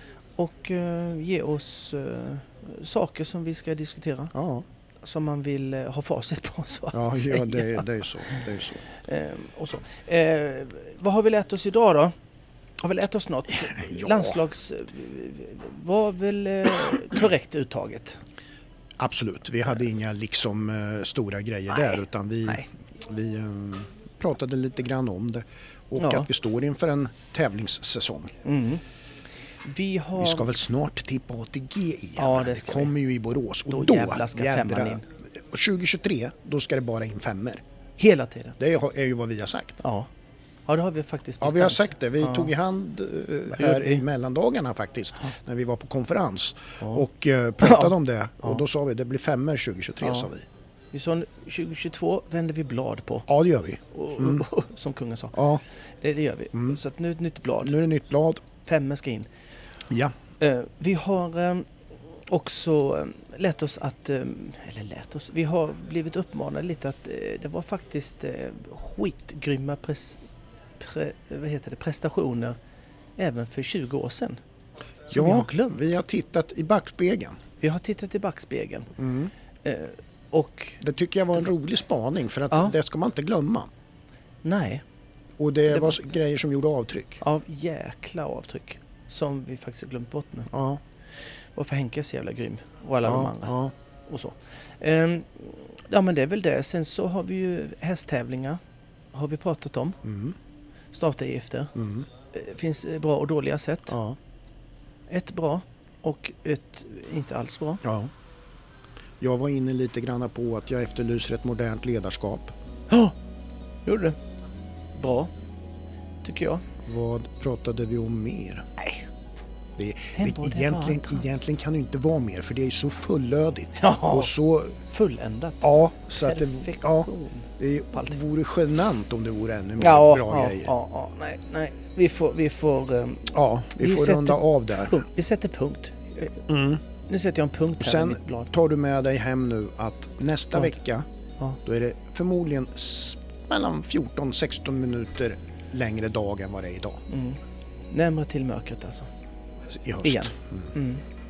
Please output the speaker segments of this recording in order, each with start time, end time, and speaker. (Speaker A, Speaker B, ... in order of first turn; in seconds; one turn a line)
Speaker A: 0.4-4.3
Speaker B: 4.3-4.7
Speaker A: 5.0-12.1
Speaker B: 6.9-8.8
Speaker A: 12.8-18.2
Speaker B: 13.6-14.4
Speaker B: 19.0-28.3
Speaker A: 21.7-22.6
Speaker A: 26.0-26.3
Speaker A: 28.4-28.8
Speaker A: 29.6-30.5
Speaker B: 30.1-37.6
Speaker A: 32.2-32.9
Speaker A: 33.7-35.0
Speaker A: 38.0-38.6
Speaker B: 38.6-39.8
Speaker A: 39.8-40.1
Speaker A: 40.7-42.5
Speaker B: 41.4-50.4
Speaker A: 43.5-44.0
Speaker A: 47.6-48.6
Speaker A: 50.0-50.3
Speaker A: 50.9-53.3
Speaker B: 53.3-54.5
Speaker A: 53.9-55.4
Speaker B: 55.3-55.6
Speaker A: 56.0-57.8
Speaker B: 57.6-58.4
Speaker A: 58.6-59.3
Speaker B: 59.9-60.1
Speaker A: 60.4-70.2
Speaker A: 70.8-72.6
Speaker A: 73.2-74.4
Speaker A: 75.1-76.0
Speaker B: 75.1-77.4
Speaker A: 77.6-78.9
Speaker B: 79.0-79.3
Speaker A: 79.6-80.8
Speaker B: 80.8-83.7
Speaker A: 84.4-84.8
Speaker B: 85.4-87.2
Speaker A: 85.7-85.9
Speaker A: 87.2-90.5
Speaker B: 90.5-90.8
Speaker A: 91.5-93.5
Speaker B: 93.0-93.7
Speaker A: 94.1-98.6
Speaker A: 99.1-100.0
Speaker B: 100.0-100.3
Speaker A: 100.9-101.7
Speaker B: 101.7-102.0
Speaker A: 102.3-104.0
Speaker B: 103.9-104.2
Speaker A: 105.1-107.8
Speaker B: 107.8-108.1
Speaker B: 109.2-112.5
Speaker A: 112.9-113.1
Speaker A: 113.8-114.2
Speaker A: 114.9-115.3
Speaker A: 116.2-116.6
Speaker B: 116.8-118.7
Speaker A: 118.8-119.0
Speaker B: 119.8-124.8
Speaker A: 120.1-121.4
Speaker A: 123.8-124.3
Speaker A: 124.9-125.7
Speaker B: 125.6-130.7
Speaker A: 126.2-128.2
Speaker A: 129.8-136.4
Speaker B: 133.3-135.0
Speaker B: 136.5-136.8
Speaker A: 137.1-138.5
Speaker B: 137.8-141.0
Speaker B: 141.6-147.0
Speaker A: 147.1-149.1
Speaker B: 149.7-150.7
Speaker A: 150.0-151.0